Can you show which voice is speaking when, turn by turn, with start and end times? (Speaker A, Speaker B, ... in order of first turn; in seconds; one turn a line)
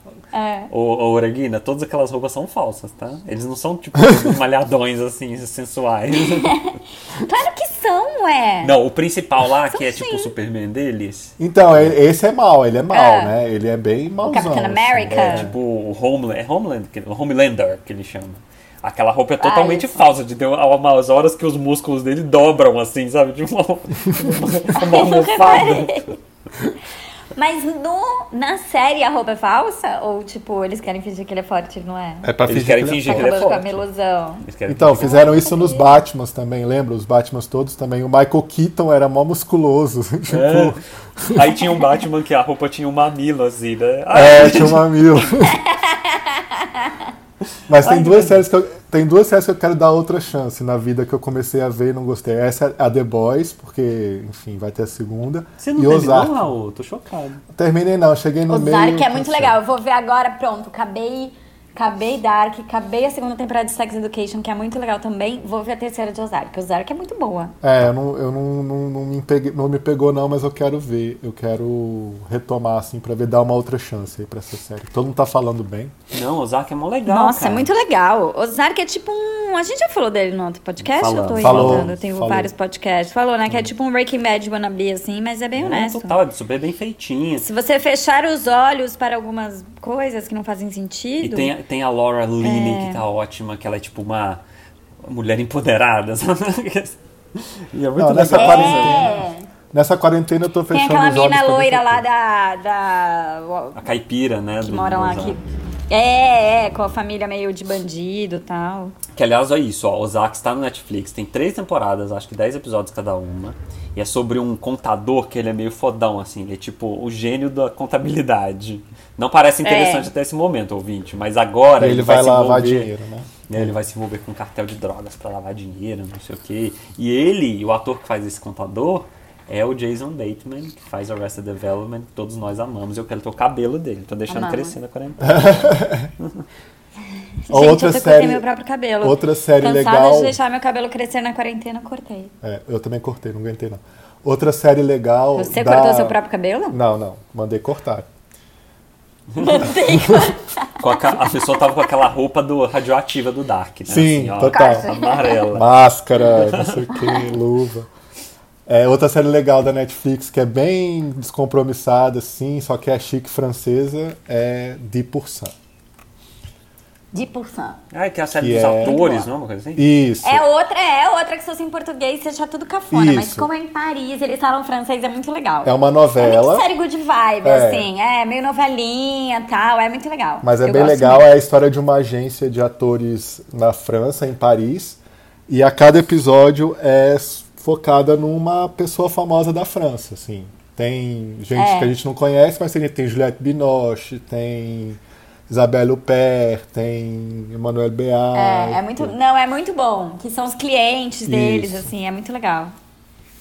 Speaker A: 0.3-0.7
Speaker B: 0.7-6.7
Speaker A: 6.3-8.7
Speaker B: 8.6-11.9
Speaker A: 9.7-10.3
Speaker C: 11.4-15.5
Speaker A: 12.9-13.3
Speaker A: 14.2-15.5
Speaker B: 15.1-26.1
Speaker A: 19.4-20.1
Speaker A: 24.7-26.1
Speaker A: 27.3-32.3
Speaker C: 32.2-33.6
Speaker B: 32.5-33.8
Speaker A: 33.0-34.4
Speaker B: 34.4-35.3
Speaker C: 34.7-41.5
Speaker A: 35.0-35.9
Speaker B: 40.3-45.0
Speaker C: 44.1-45.6
Speaker A: 45.5-47.1
Speaker C: 47.7-56.5
Speaker B: 47.7-48.4
Speaker B: 55.6-57.4
Speaker C: 57.5-59.6
Speaker A: 58.5-67.5
Speaker C: 67.6-75.9
Speaker B: 76.1-77.7
Speaker A: 77.0-86.2
Speaker B: 80.8-81.9
Speaker C: 81.4-82.5
Speaker B: 85.5-87.5
Speaker A: 87.4-91.5
Speaker B: 91.2-94.4
Speaker A: 92.4-93.0
Speaker B: 95.0-99.1
Speaker C: 98.0-99.2
Speaker A: 98.3-99.5
Speaker C: 99.7-102.0
Speaker A: 100.7-103.8
Speaker B: 103.7-105.4
Speaker A: 104.6-109.0
Speaker B: 109.1-122.9
Speaker A: 119.6-120.1
Speaker C: 121.8-123.8
Speaker B: 123.5-136.4
Speaker A: 134.3-134.8
Speaker C: 135.2-136.1
Speaker A: 137.5-142.3
Speaker C: 137.5-138.4
Speaker C: 139.0-140.4
Speaker C: 142.4-146.2
Speaker A: 145.3-146.8
Speaker C: 146.7-148.1
Speaker B: 149.3-149.7
Speaker A: 149.4-151.2
Speaker C: 149.9-150.3
Speaker B: 150.8-156.9
Speaker C: 153.9-154.9
Speaker A: 154.5-155.5
Speaker C: 155.5-157.9
Speaker A: 156.9-157.3
Speaker C: 158.7-165.5
Speaker A: 167.1-167.8
Speaker B: 167.9-169.8
Speaker C: 168.4-169.0
Speaker A: 168.8-169.3
Speaker C: 169.8-170.4
Speaker A: 170.2-181.3
Speaker C: 172.9-173.5
Speaker C: 175.6-176.7
Speaker C: 177.4-177.9
Speaker C: 180.4-199.1
Speaker A: 191.5-191.9
Speaker A: 198.3-202.7
Speaker C: 201.3-201.9